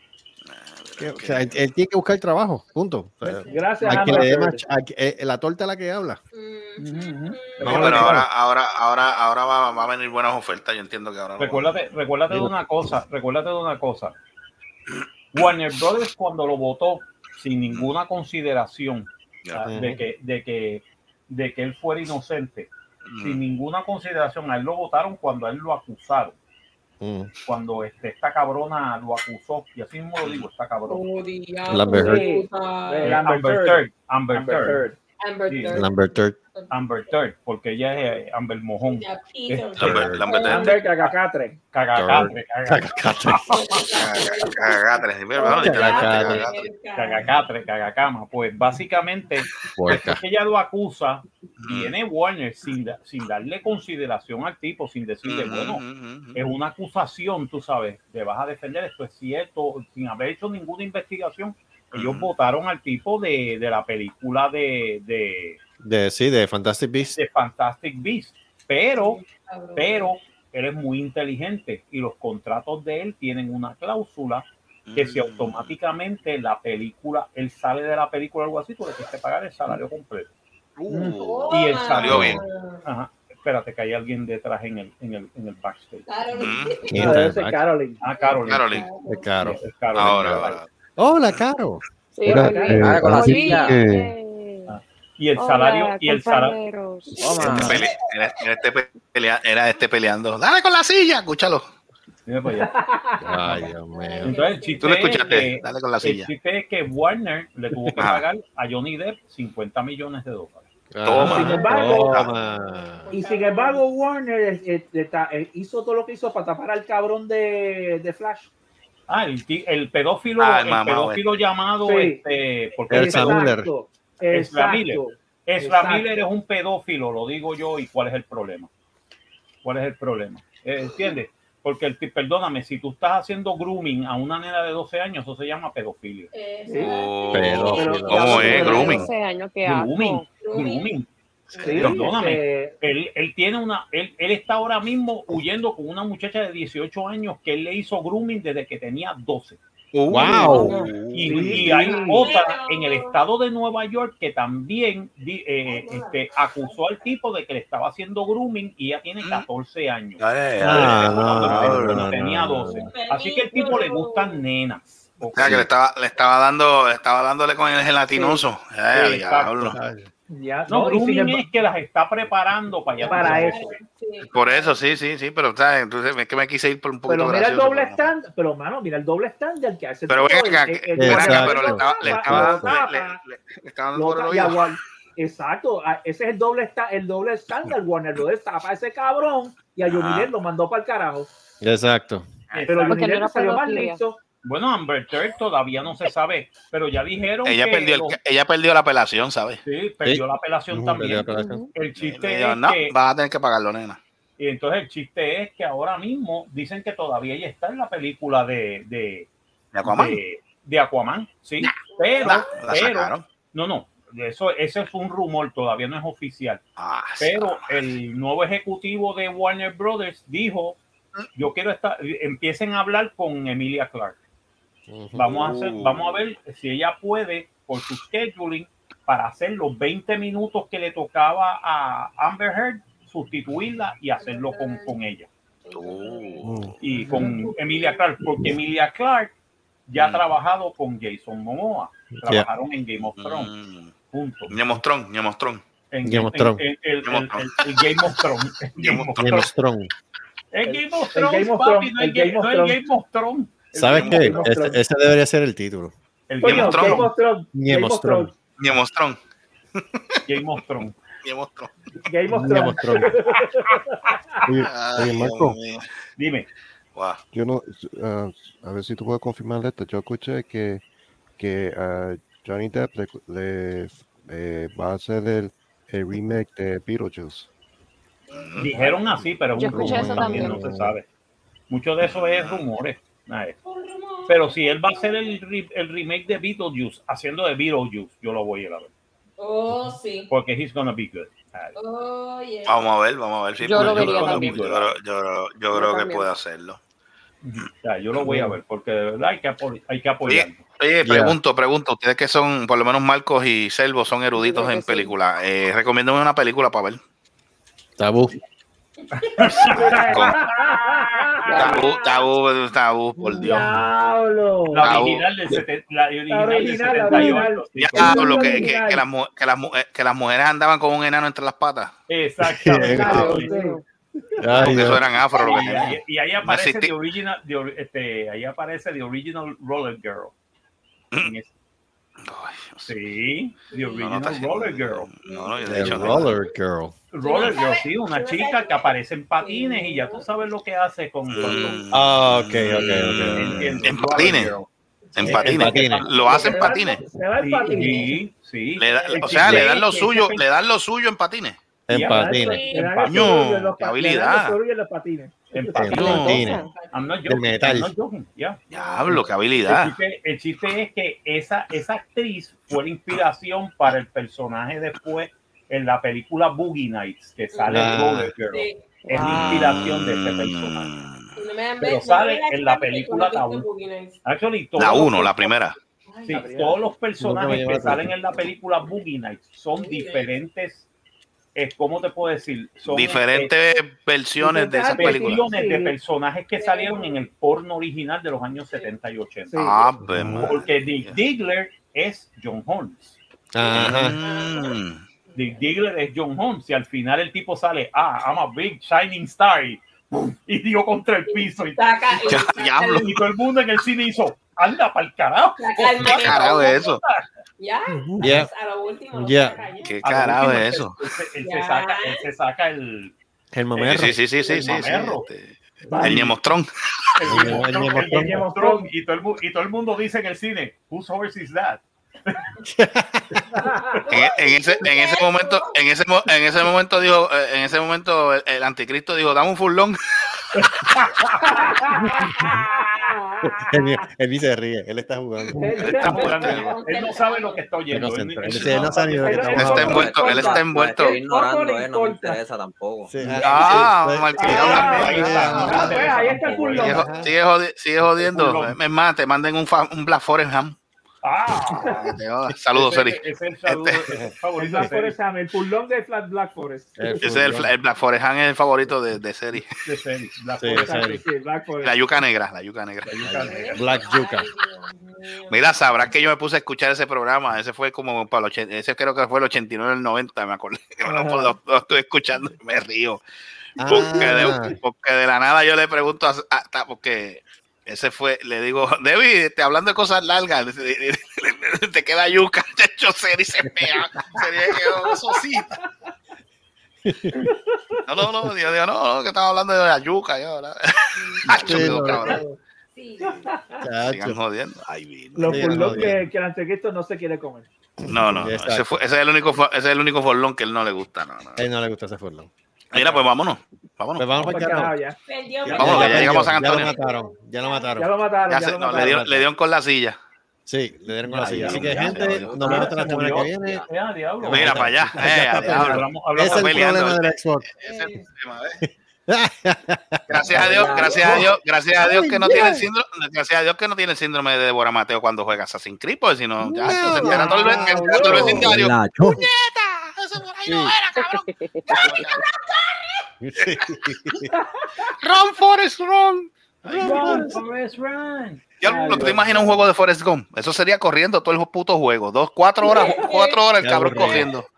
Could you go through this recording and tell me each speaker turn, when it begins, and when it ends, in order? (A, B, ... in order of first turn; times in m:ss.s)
0:00.5-0:01.6 A
0:01.0-0:06.2 B
0:03.2-0:04.2 C
0:03.5-0:04.6 D
0:06.3-0:08.2 C
0:06.8-0:07.4 D
0:07.6-0:08.3 B
0:07.6-0:11.7 A
0:11.4-0:14.2 E
0:15.3-0:26.4 E
0:19.4-0:19.7 A
0:19.7-0:20.0 B
0:23.1-0:23.4 A
0:27.0-0:27.3 B
0:27.4-0:31.1 E
0:30.2-0:30.5 A
0:30.9-0:33.2 C
0:31.7-0:32.3 B
0:31.9-0:35.0 D
0:33.0-0:34.9 E
0:35.2-0:37.1 C
0:35.5-0:35.8 E
0:35.7-0:36.4 B
0:36.7-0:41.0 E
0:38.8-0:40.8 C
0:39.8-0:40.2 B
0:39.8-0:40.8 A
0:40.4-0:41.6 D
0:41.7-0:43.6 E
0:42.0-0:43.6 B
0:43.5-0:47.5 C
0:43.9-0:46.7 A
0:45.5-0:46.5 B
0:46.9-0:55.8 E
0:49.8-0:50.2 B
0:51.6-0:51.9 A
0:55.2-0:56.4 A
0:56.3-1:05.6 E
1:01.9-1:02.3 A
1:05.8-1:07.2 B
1:07.1-1:09.2 E
1:08.9-1:10.1 C
1:09.8-1:20.3 E
1:14.9-1:15.8 A
1:20.8-1:22.4 A
1:20.9-1:21.2 D
1:21.2-1:22.8 C
1:21.5-1:26.4 E
1:22.1-1:22.4 B
1:26.1-1:27.2 C
1:26.4-1:26.8 A
1:26.9-1:27.6 B
1:27.0-1:28.0 D
1:28.0-1:30.6 E
1:28.1-1:29.4 C
1:28.4-1:28.9 A
1:29.1-1:31.8 B
1:29.9-1:30.7 A
1:32.1-1:34.8 F
1:32.2-1:34.1 G
1:32.3-1:32.8 D
1:32.8-1:33.7 H
1:33.2-1:33.8 C
1:34.7-1:36.6 E
1:35.4-1:37.6 F
1:37.2-1:37.8 H
1:37.2-1:37.9 C
1:37.4-1:37.8 B
1:37.5-1:41.7 A
1:42.3-1:42.7 E
1:42.6-1:43.4 D
1:43.2-1:44.4 B
1:43.8-1:45.6 C
1:44.2-1:50.7 E
1:44.8-1:46.3 A
1:48.0-1:48.2 A
1:50.9-1:53.1 B
1:51.0-1:52.3 A
1:51.2-1:52.2 D
1:51.3-1:53.8 C
1:53.1-1:58.4 D
1:59.1-2:03.5 E
2:00.4-2:01.4 A
2:01.8-2:02.2 D
2:02.9-2:06.1 D
2:02.9-2:03.7 B
2:04.3-2:08.7 E
2:09.6-2:16.3 E
2:16.3-2:19.3 C
2:16.7-2:16.9 D
2:16.8-2:19.1 A
2:17.3-2:19.0 B
2:17.8-2:19.0 D
2:18.1-2:20.3 F
2:18.5-2:18.9 E
2:19.6-2:21.1 E
2:20.4-2:21.0 C
2:21.5-2:22.2 C
2:21.5-2:22.0 A
2:21.7-2:22.8 D
2:21.7-2:29.6 E
2:29.9-2:31.9 A
2:30.1-2:30.8 B
2:30.4-2:45.7 E
2:30.4-2:32.3 D
2:32.0-2:33.2 C
2:35.6-2:37.1 C
2:40.2-2:42.1 A
2:40.6-2:42.8 B
2:42.7-2:44.4 C
2:45.3-2:49.8 A
2:45.4-2:45.7 B
2:48.1-2:48.4 D
2:48.9-2:49.8 E
2:49.7-2:50.1 B
2:50.3-2:51.5 D
2:50.7-2:53.8 E
2:53.0-2:54.8 C
2:53.0-2:53.7 D
2:54.2-2:58.1 A
2:57.1-3:03.2 D
3:00.1-3:04.6 A
3:01.0-3:02.8 B
3:03.9-3:11.3 D
3:09.8-3:10.3 A
3:11.6-3:12.3 B
3:12.5-3:13.0 E
3:12.7-3:14.2 D
3:12.9-3:14.0 F
3:14.4-3:18.2 E
3:17.4-3:19.6 A
3:19.6-3:23.0 E
3:20.0-3:21.6 B
3:21.2-3:21.7 F
3:22.0-3:24.0 A
3:24.4-3:29.3 E
3:29.7-3:30.2 A
3:29.8-3:36.6 E
3:31.6-3:33.2 A
3:31.9-3:32.7 C
3:36.8-3:37.9 A
3:37.2-3:40.8 E
3:41.4-3:44.2 E
3:44.9-3:45.3 B
3:45.1-3:55.3 E
3:45.2-3:46.2 A
3:54.2-3:55.0 C
3:55.6-3:58.1 C
3:55.7-3:56.8 A
3:56.5-3:56.8 G
3:56.8-3:59.3 E
3:59.9-4:03.5 E
4:00.0-4:00.2 A
4:02.2-4:02.5 B
4:03.2-4:03.9 A
4:04.1-4:04.7 E
4:04.5-4:05.6 A
4:05.9-4:09.5 E
4:06.0-4:06.6 B
4:07.1-4:07.7 A
4:08.8-4:09.1 A
4:09.2-4:09.9 B
4:10.5-4:14.6 E
4:10.7-4:12.8 D
4:13.7-4:15.9 B
4:13.9-4:14.4 A
4:14.4-4:14.8 D
4:16.3-4:17.1 E
4:16.4-4:18.3 D
4:16.4-4:17.1 A
4:17.5-4:18.3 B
4:18.6-4:19.2 A
4:19.8-4:20.2 A
4:20.3-4:21.0 E
4:21.2-4:21.7 A
4:22.1-4:24.2 D
4:22.3-4:23.1 B
4:24.5-4:25.6 G
4:24.7-4:25.8 A
4:26.2-4:26.5 E
4:27.0-4:27.2 A
4:27.3-4:30.8 G
4:31.4-4:37.5 G
4:38.3-4:39.3 C
4:38.3-4:38.8 A
4:38.6-4:41.1 E
4:39.5-4:40.6 F
4:39.7-4:40.9 B
4:41.7-4:43.6 E
4:42.0-4:42.6 A
4:43.6-4:45.4 C
4:44.3-4:48.9 E
4:49.4-4:50.3 C
4:50.3-4:51.8 E
4:51.8-4:52.8 C
4:52.7-4:56.8 A
4:53.6-4:54.7 F
4:53.8-4:54.9 E
4:53.8-4:54.1 B
4:55.7-4:56.3 F
4:57.4-5:00.6 E
4:58.2-4:58.6 B
5:00.3-5:07.0 A
5:01.0-5:01.4 B
5:04.3-5:05.1 F
5:08.0-5:08.4 B
5:09.0-5:10.0 C
5:09.2-5:10.2 E
5:09.7-5:11.8 D
5:10.6-5:12.3 C
5:11.4-5:11.9 F
5:11.6-5:13.7 A
5:13.4-5:14.9 D
5:14.7-5:18.4 E
5:14.8-5:15.3 A
5:16.3-5:19.0 D
5:17.8-5:21.9 A
5:22.1-5:23.6 E
5:22.4-5:23.3 B
5:22.9-5:23.8 D
5:23.0-5:23.8 F
5:24.4-5:25.0 B
5:24.4-5:30.3 E
5:24.5-5:26.9 A
5:31.2-5:31.5 E
5:32.2-5:32.9 A
5:32.8-5:35.1 E
5:33.7-5:34.1 C
5:34.0-5:36.3 A
5:35.2-5:36.5 C
5:35.6-5:37.0 B
5:37.1-5:41.8 E
5:37.2-5:40.3 C
5:41.3-5:44.6 A
5:41.4-5:41.8 C
5:41.9-5:44.5 B
5:42.7-5:44.7 E
5:45.1-5:45.4 C
5:45.2-5:47.0 A
5:45.2-5:46.1 B
5:45.2-5:46.8 E
5:46.3-5:48.2 D
5:47.4-5:50.4 E
5:47.8-5:48.0 C
5:48.8-5:51.6 A
5:48.8-5:49.8 C
5:51.9-5:52.7 B
5:51.9-5:53.4 E
5:52.0-5:55.4 D
5:52.4-5:52.9 C
5:53.1-5:54.6 A
5:55.5-6:10.9 E
5:55.6-5:56.7 B
5:55.9-5:56.4 A
5:56.1-5:57.3 C
5:56.3-5:56.7 F
5:57.3-5:57.9 B
5:58.7-6:00.0 A
5:58.7-5:59.4 C
6:07.5-6:08.9 C
6:07.7-6:08.3 B
6:09.1-6:09.6 F
6:09.1-6:11.3 A
6:11.4-6:14.2 C
6:11.8-6:13.7 E
6:14.2-6:15.5 E
6:14.8-6:15.8 A
6:16.1-6:16.5 C
6:16.2-6:20.9 E
6:16.3-6:16.8 D
6:17.2-6:18.1 B
6:19.7-6:20.4 C
6:21.6-6:23.5 E
6:22.8-6:25.4 A
6:24.4-6:26.0 D
6:25.0-6:29.7 E
6:26.5-6:27.3 C
6:28.6-6:28.9 C
6:29.5-6:29.8 D
6:29.6-6:31.2 A
6:30.1-6:30.6 B
6:30.3-6:33.2 E
6:33.5-6:34.2 B
6:33.7-6:35.8 C
6:33.7-6:35.0 A
6:35.4-6:42.4 E
6:41.3-6:43.1 C
6:42.3-6:43.2 A
6:43.0-6:47.2 E
6:45.6-6:46.9 C
6:46.0-6:47.0 A
6:47.6-6:50.5 C
6:48.2-6:48.5 B
6:49.2-6:49.6 B
6:49.8-6:51.0 A
6:50.0-6:53.1 E
6:51.4-6:52.2 C
6:53.5-6:55.1 B
6:53.8-6:55.3 E
6:53.8-6:56.7 A
6:55.9-6:56.3 D
6:56.0-6:56.3 E
6:57.2-7:02.5 E
6:57.3-6:58.4 B
6:58.0-6:58.9 D
7:02.6-7:03.4 B
7:03.5-7:04.0 D
7:04.1-7:05.8 C
7:04.1-7:10.0 A
7:10.6-7:11.8 E
7:11.4-7:13.7 D
7:12.1-7:12.5 B
7:13.5-7:15.9 B
7:15.6-7:16.6 D
7:15.8-7:16.8 A
7:16.0-7:19.9 E
7:16.1-7:18.0 C
7:17.9-7:20.1 B
7:18.5-7:19.0 A
7:19.2-7:22.4 D
7:19.5-7:21.2 A
7:19.8-7:23.2 H
7:23.0-7:25.9 B
7:23.2-7:23.9 E
7:23.4-7:26.0 A
7:24.4-7:27.0 D
7:24.4-7:27.0 E
7:25.9-7:26.9 H
7:26.7-7:27.4 B
7:26.8-7:30.8 A
7:28.3-7:28.8 E
7:31.2-7:32.0 E
7:31.8-7:33.8 A
7:32.7-7:35.2 E
7:33.9-7:34.9 B
7:34.6-7:37.2 D
7:37.0-7:37.7 B
7:37.2-7:39.7 A
7:39.8-7:41.2 E
7:40.6-7:41.2 B
7:40.7-7:42.0 D
7:41.8-7:43.2 A
7:43.0-7:44.1 E
7:43.2-7:44.5 B
7:43.3-7:46.1 C
7:45.5-7:53.2 A
7:51.0-7:51.6 D
7:53.8-7:54.8 B
7:53.8-7:54.6 D
7:53.9-8:05.7 A
8:03.6-8:04.4 B
8:07.0-8:07.5 B
8:07.5-8:08.0 D
8:08.1-8:12.4 A
8:11.2-8:12.0 C
8:11.5-8:12.4 B
8:12.2-8:12.6 D
8:12.9-8:13.7 C
8:13.2-8:13.7 D
8:13.8-8:14.4 B
8:14.1-8:16.1 A
8:15.4-8:17.7 D
8:15.5-8:16.3 B
8:18.0-8:19.0 B
8:18.1-8:21.6 A
8:21.6-8:22.5 B
8:22.9-8:24.3 A
8:22.9-8:23.2 E
8:24.2-8:25.0 B
8:24.4-8:25.2 D
8:25.3-8:27.9 C
8:25.6-8:26.5 E
8:25.7-8:28.1 B
8:25.7-8:27.0 A
8:28.0-8:29.3 D
8:28.5-8:30.2 A
8:29.0-8:29.5 B
8:30.7-8:33.9 B
8:31.3-8:37.1 E
8:31.5-8:32.8 A
8:31.9-8:33.9 H
8:34.4-8:37.7 B
8:34.5-8:37.3 A
8:37.8-8:38.8 A
8:37.8-8:38.3 C
8:39.3-8:42.9 B
8:40.3-8:52.4 A
8:40.5-8:41.4 H
8:46.6-8:49.5 B
8:47.2-8:48.7 D
8:47.3-8:48.5 E
8:48.6-8:49.4 H
8:50.7-8:51.0 B
8:51.2-8:52.1 F
8:52.0-8:53.2 C
8:53.4-8:54.5 B
8:55.2-8:57.4 A
8:56.9-8:57.6 B
8:57.0-8:59.3 E
8:58.8-9:04.7 A
8:58.8-8:59.7 D
9:02.8-9:03.6 C
9:03.8-9:04.5 B